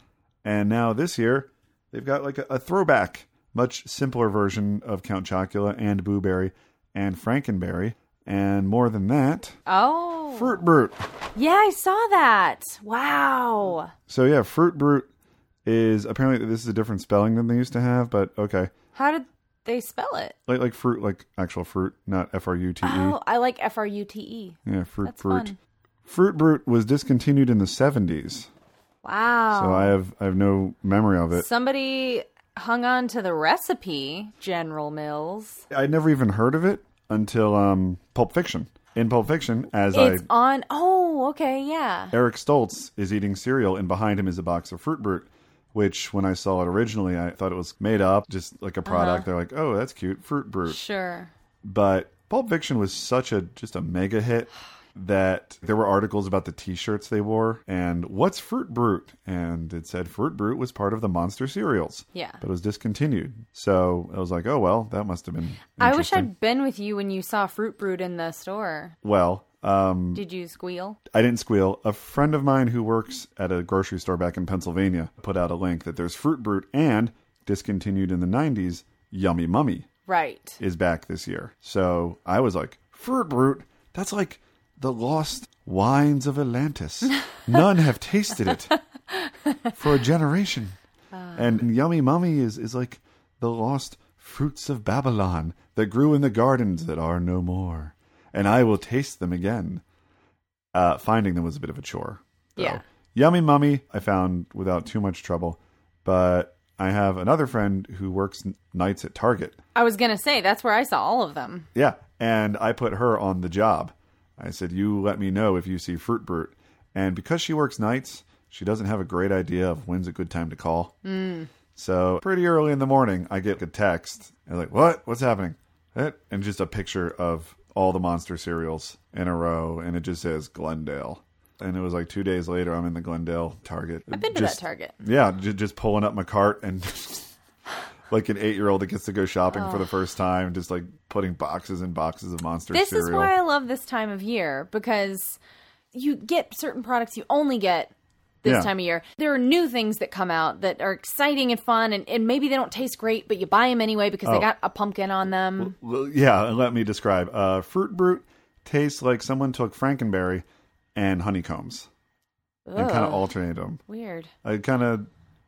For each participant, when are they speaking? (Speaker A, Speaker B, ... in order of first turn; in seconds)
Speaker A: 0.4-9.6, 10.3-11.0, 14.1-15.1, 15.6-18.7, 20.5-23.2, 24.6-25.5, 26.0-28.5, 29.5-31.5, 35.7-40.3, 42.1-50.8, 51.6-66.3, 69.0-70.2, 71.1-79.9, 80.6-88.7, 89.8-90.8, 91.3-99.8, 100.7-109.6, 111.7-120.9, 121.8-137.3, 138.1-143.3, 148.4-148.7, 155.6-161.9, 162.7-163.8, 164.4-165.1
Speaker B: 9.7-10.6, 11.3-13.9, 18.9-20.4, 22.8-25.6, 29.0-29.9, 31.3-35.6, 39.9-42.1, 48.8-49.3, 50.7-51.3, 62.1-62.4, 65.8-69.0, 70.1-71.0, 80.1-80.6, 89.1-89.7, 91.1-91.6, 102.6-102.8, 109.7-111.7, 121.0-121.5, 134.1-135.0, 139.5-139.9, 142.7-145.4, 145.9-155.7, 162.7-163.3, 163.9-164.3